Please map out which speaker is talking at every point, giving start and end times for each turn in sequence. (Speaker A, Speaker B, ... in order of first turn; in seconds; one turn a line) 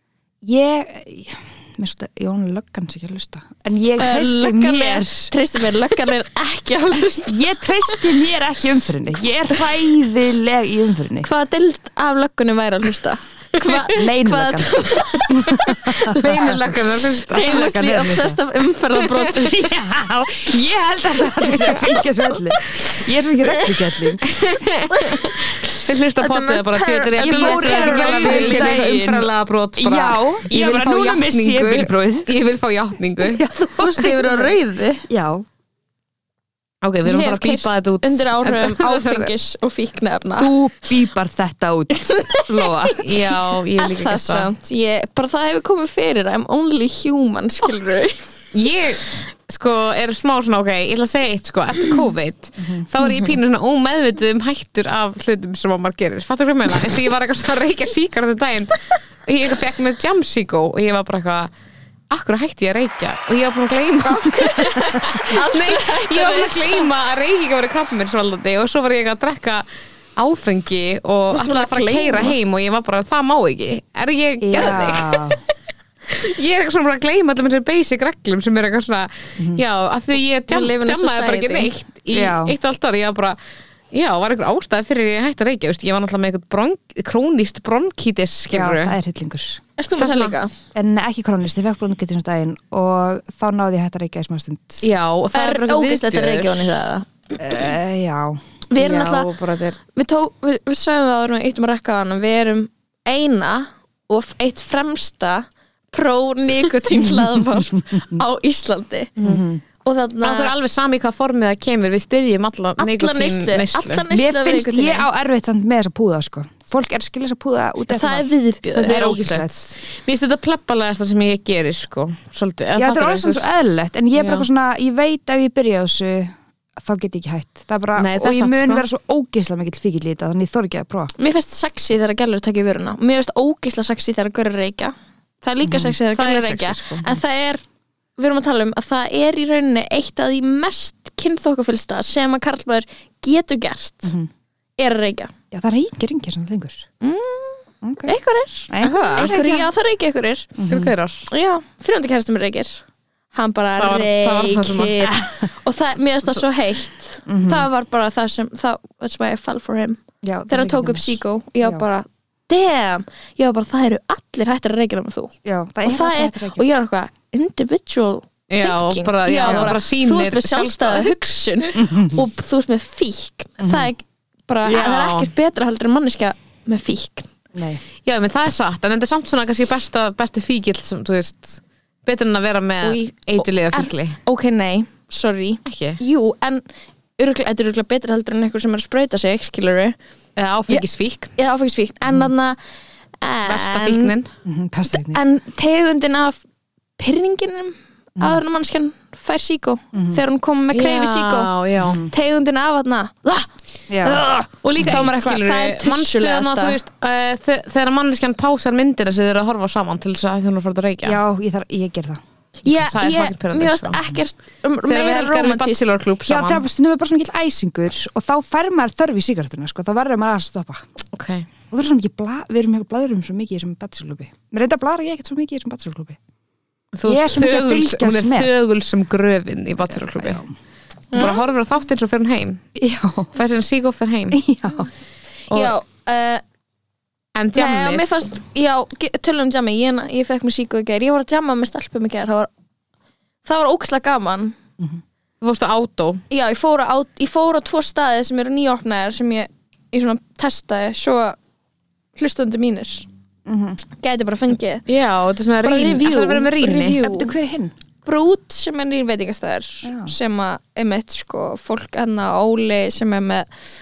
Speaker A: 0.4-5.3
Speaker B: 4.0-8.1
Speaker A: 7.3-11.3
Speaker B: 11.2-16.2
Speaker A: 13.6-16.8
Speaker C: 16.1-17.6
Speaker B: 17.3-19.7
Speaker A: 17.3-18.4
Speaker A: 19.3-24.2
Speaker C: 24.4-33.4
Speaker B: 24.9-28.8
Speaker A: 27.2-32.3
Speaker A: 33.2-34.5
Speaker B: 33.8-35.0
Speaker A: 35.1-35.5
Speaker C: 36.8-39.3
Speaker B: 37.0-40.5
Speaker A: 40.3-43.0
Speaker B: 42.0-42.7
Speaker C: 43.0-44.5
Speaker B: 43.8-48.3
Speaker C: 48.5-61.5
Speaker C: 62.1-69.6
Speaker B: 64.0-66.9
Speaker C: 70.2-75.4
Speaker B: 71.3-72.3
Speaker A: 74.4-75.4
Speaker C: 76.1-83.4
Speaker B: 80.5-81.7
Speaker A: 82.1-82.5
Speaker C: 83.9-89.0
Speaker A: 88.5-89.6
Speaker B: 89.8-90.5
Speaker C: 89.9-90.3
Speaker A: 90.7-94.8
Speaker C: 94.8-96.6
Speaker B: 95.3-97.0
Speaker A: 97.4-98.4
Speaker B: 98.7-99.3
Speaker C: 98.8-99.8
Speaker B: 99.9-109.1
Speaker A: 107.0-108.0
Speaker A: 109.2-109.6
Speaker B: 109.8-110.5
Speaker C: 110.2-114.0
Speaker B: 112.8-115.1
Speaker A: 114.1-119.7
Speaker B: 117.9-119.2
Speaker C: 118.7-123.6
Speaker A: 122.8-131.1
Speaker C: 124.1-124.5
Speaker C: 128.0-128.8
Speaker B: 131.2-137.6
Speaker A: 135.6-135.9
Speaker C: 136.1-137.0
Speaker B: 138.2-144.1
Speaker A: 144.0-144.3
Speaker B: 144.8-145.3
Speaker A: 145.5-146.8
Speaker B: 147.0-150.5
Speaker A: 147.8-148.1
Speaker A: 148.7-149.7
Speaker C: 148.8-149.4
Speaker A: 150.6-150.9
Speaker C: 150.7-151.3
Speaker B: 151.3-177.3
Speaker C: 153.8-155.1
Speaker A: 157.3-157.7
Speaker A: 160.2-161.8
Speaker A: 165.4-166.6
Speaker C: 168.5-171.1
Speaker A: 169.4-169.7
Speaker A: 171.8-172.2
Speaker A: 173.6-173.9
Speaker C: 174.6-175.3
Speaker A: 177.5-177.8
Speaker C: 178.0-184.2
Speaker B: 182.8-186.6
Speaker C: 185.7-186.0
Speaker B: 187.2-189.9
Speaker C: 190.3-191.3
Speaker B: 191.3-192.6
Speaker B: 193.2-194.1
Speaker C: 193.4-194.3
Speaker A: 194.4-195.2
Speaker B: 194.9-196.4
Speaker B: 197.0-201.5
Speaker A: 199.9-200.2
Speaker C: 200.7-202.0
Speaker A: 201.8-202.1
Speaker B: 202.1-203.5
Speaker A: 203.9-204.2
Speaker B: 204.0-206.8
Speaker C: 204.6-211.2
Speaker A: 211.0-212.2
Speaker B: 212.6-215.9
Speaker C: 212.9-214.0
Speaker C: 214.8-216.6
Speaker A: 216.3-220.8
Speaker C: 221.1-221.5
Speaker A: 221.7-226.2
Speaker C: 226.9-230.4
Speaker A: 227.1-228.5
Speaker A: 230.1-230.5
Speaker B: 231.1-231.4
Speaker C: 231.1-232.6
Speaker A: 232.8-233.3
Speaker C: 233.3-234.4
Speaker A: 234.3-234.9
Speaker B: 235.5-236.4
Speaker C: 237.3-238.2
Speaker B: 237.5-242.5
Speaker B: 243.4-244.6
Speaker C: 245.4-246.2
Speaker B: 246.3-251.4
Speaker B: 252.1-253.1
Speaker A: 253.4-253.8
Speaker B: 253.9-254.8
Speaker C: 254.9-257.0
Speaker B: 255.6-257.3
Speaker A: 257.0-257.7
Speaker B: 258.1-263.5
Speaker A: 259.8-260.1